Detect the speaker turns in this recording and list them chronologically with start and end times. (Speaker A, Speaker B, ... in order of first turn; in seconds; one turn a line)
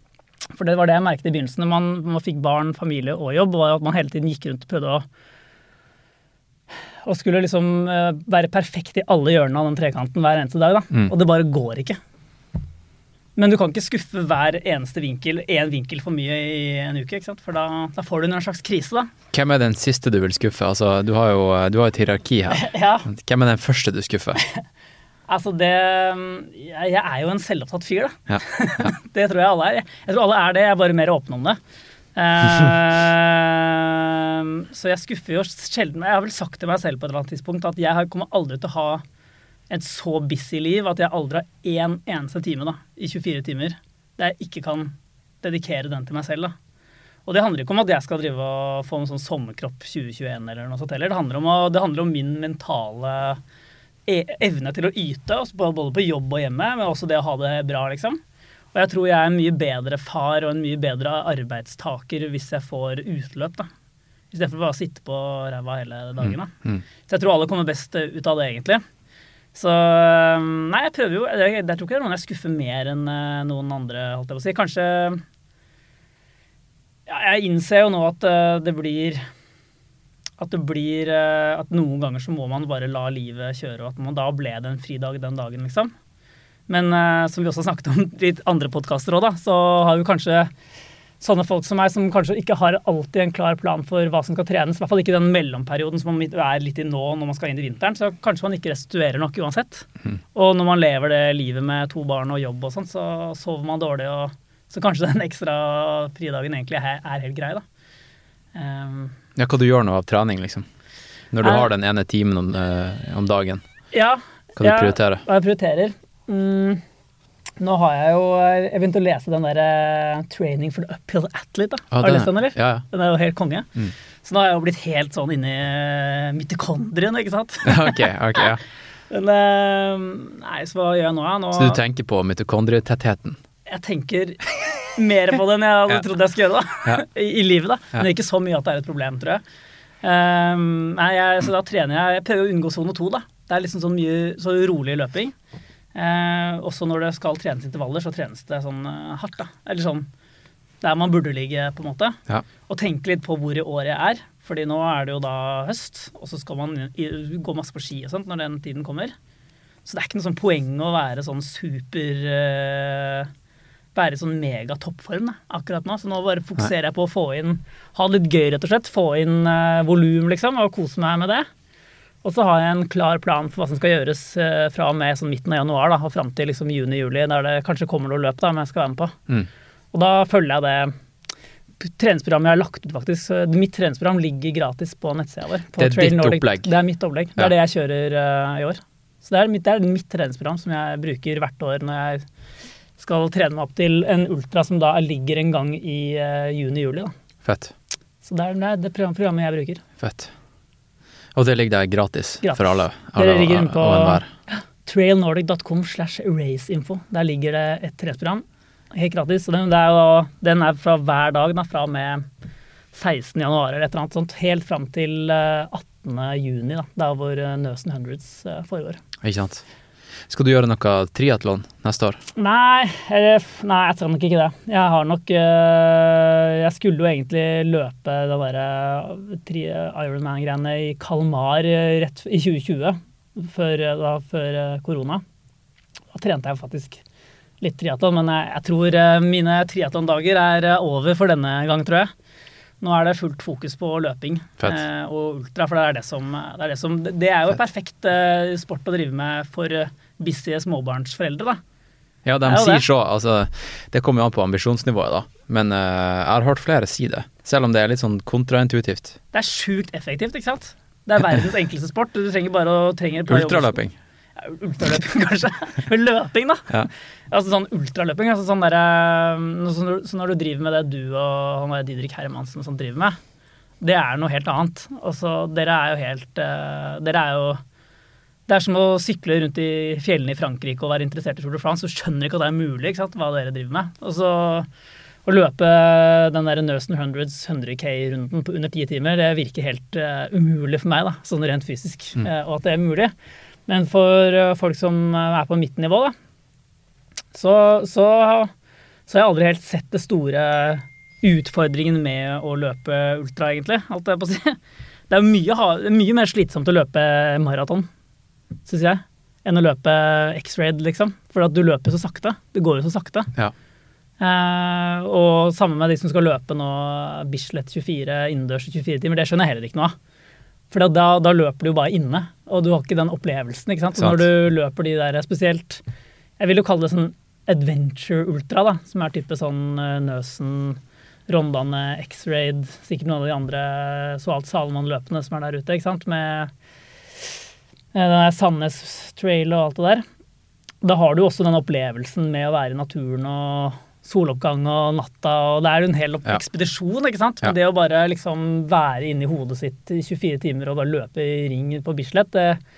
Speaker A: 0.6-5.0
Speaker A: 7.0-12.0
Speaker A: 13.4-19.1
Speaker B: 19.3-24.4
Speaker A: 22.5-23.1
Speaker A: 25.3-31.6
Speaker B: 28.3-28.9
Speaker A: 32.1-39.0
Speaker A: 39.7-46.6
Speaker A: 47.3-53.4
Speaker A: 54.1-58.2
Speaker A: 58.7-63.7
Speaker A: 64.3-66.5
Speaker B: 66.2-66.8
Speaker A: 67.0-68.8
Speaker A: 69.5-75.2
Speaker A: 77.1-79.2
Speaker A: 80.4-85.9
Speaker A: 86.7-90.5
Speaker A: 91.2-107.6
Speaker A: 108.5-109.2
Speaker B: 109.4-110.7
Speaker B: 111.3-113.7
Speaker A: 111.4-111.7
Speaker A: 113.9-116.8
Speaker B: 114.6-115.2
Speaker A: 117.6-123.7
Speaker B: 121.9-122.8
Speaker A: 124.2-128.5
Speaker B: 127.7-128.6
Speaker A: 129.1-131.8
Speaker B: 131.5-133.4
Speaker A: 133.7-139.4
Speaker A: 140.0-145.3
Speaker A: 145.9-150.1
Speaker A: 150.8-159.2
Speaker A: 159.8-163.3
Speaker A: 163.9-171.5
Speaker A: 172.2-179.2
Speaker A: 179.9-180.9
Speaker A: 181.8-192.3
Speaker B: 185.8-186.7
Speaker A: 193.0-197.1
Speaker B: 197.4-197.7
Speaker A: 198.2-199.8
Speaker B: 200.0-200.3
Speaker B: 201.3-204.3
Speaker A: 202.4-212.2
Speaker A: 212.9-219.0
Speaker B: 219.2-219.6
Speaker B: 220.3-222.2
Speaker A: 222.4-235.2
Speaker A: 236.1-237.0
Speaker A: 237.6-242.1
Speaker A: 242.8-251.6
Speaker B: 252.2-259.2
Speaker A: 252.5-252.8
Speaker A: 259.3-263.8
Speaker B: 263.3-263.9
Speaker A: 264.4-266.7
Speaker A: 267.3-273.2
Speaker A: 273.8-277.6
Speaker A: 278.5-284.7
Speaker A: 285.3-293.1
Speaker A: 293.7-296.1
Speaker A: 297.3-298.5
Speaker A: 299.1-304.6
Speaker A: 305.1-307.9
Speaker A: 308.7-313.3
Speaker A: 314.2-319.9
Speaker A: 320.7-325.8
Speaker B: 324.0-324.3
Speaker A: 326.4-336.5
Speaker A: 337.9-340.0
Speaker A: 340.8-352.6